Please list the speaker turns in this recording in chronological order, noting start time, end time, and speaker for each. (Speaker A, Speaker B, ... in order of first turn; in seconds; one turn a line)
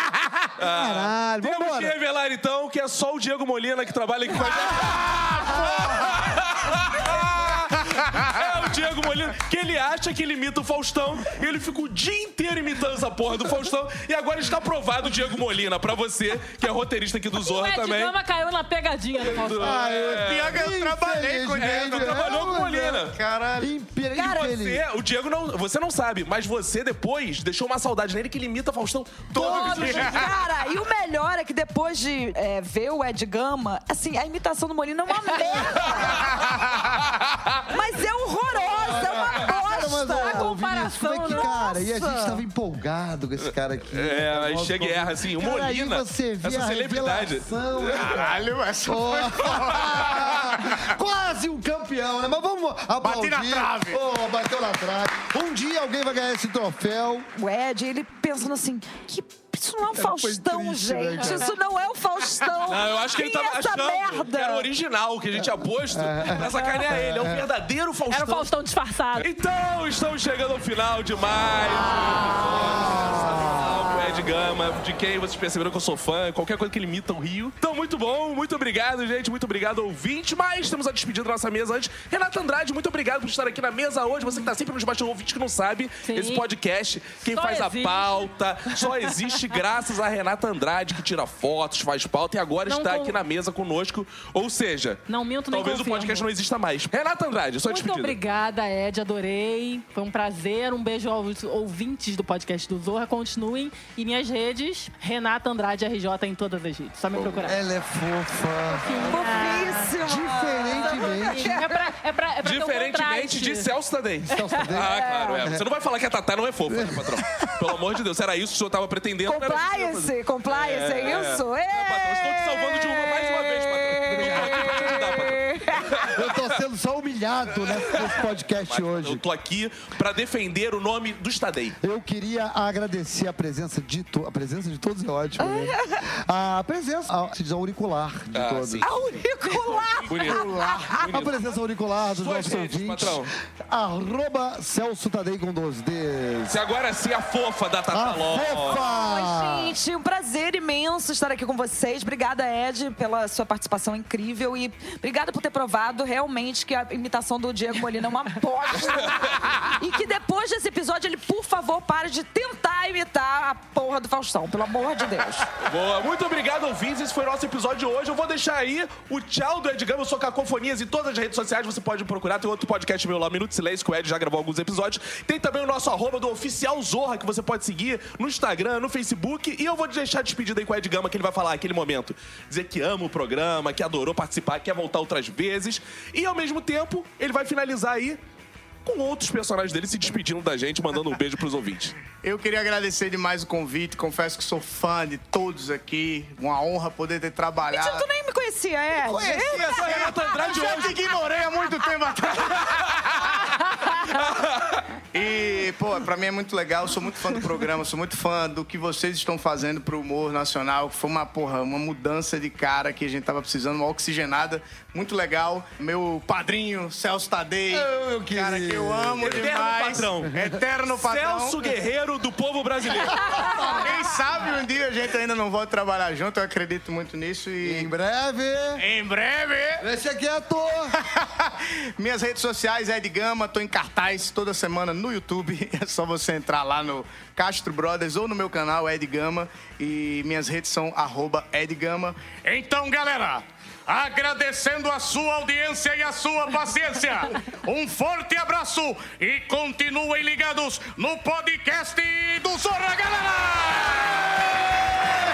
Speaker A: 0.6-18.1
Speaker B: 0.6-2.0
Speaker C: 17.4-19.9
Speaker A: 19.2-20.6
Speaker B: 19.6-23.1
Speaker D: 20.2-22.2
Speaker A: 21.5-23.1
Speaker D: 23.1-23.7
Speaker B: 23.6-24.8
Speaker A: 24.1-30.3
Speaker D: 29.3-30.3
Speaker E: 29.4-36.3
Speaker C: 29.4-30.3
Speaker B: 35.4-35.8
Speaker A: 35.8-36.1
Speaker E: 37.7-40.5
Speaker C: 38.5-42.3
Speaker B: 38.8-57.3
Speaker E: 41.3-42.0
Speaker A: 43.9-48.0
Speaker D: 47.9-50.8
Speaker D: 53.0-54.0
Speaker E: 57.4-64.7
Speaker B: 59.9-61.5
Speaker C: 61.1-61.6
Speaker A: 62.7-68.5
Speaker B: 65.9-67.5
Speaker C: 68.1-69.2
Speaker A: 69.2-98.2
Speaker B: 71.9-73.9
Speaker C: 86.0-86.5
Speaker C: 87.3-89.3
Speaker C: 92.7-93.2
Speaker C: 95.1-96.3
Speaker C: 97.7-107.6
Speaker B: 107.3-109.2
Speaker C: 108.7-110.0
Speaker E: 109.0-111.9
Speaker B: 110.0-111.6
Speaker C: 110.7-113.7
Speaker A: 112.4-126.2
Speaker B: 114.3-114.9
Speaker E: 114.9-115.5
Speaker B: 116.7-117.2
Speaker E: 119.2-126.1
Speaker B: 124.1-124.8
Speaker B: 126.1-129.2
Speaker A: 128.0-131.8
Speaker B: 131.8-138.9
Speaker E: 135.4-136.0
Speaker A: 138.3-141.4
Speaker E: 138.8-141.1
Speaker B: 140.2-146.6
Speaker A: 142.2-143.3
Speaker A: 146.5-148.8
Speaker B: 147.9-149.8
Speaker E: 148.7-165.5
Speaker A: 165.6-188.2
Speaker A: 188.9-192.0
Speaker D: 192.2-198.1
Speaker E: 197.7-201.0
Speaker D: 199.1-203.5
Speaker A: 199.7-201.0
Speaker A: 204.2-204.8
Speaker D: 205.1-221.7
Speaker B: 217.7-219.5
Speaker A: 219.2-223.3
Speaker B: 223.3-224.0
Speaker D: 223.8-227.9
Speaker B: 227.6-228.8
Speaker D: 228.8-229.8
Speaker B: 229.8-230.9
Speaker D: 231.0-242.2
Speaker F: 242.4-254.4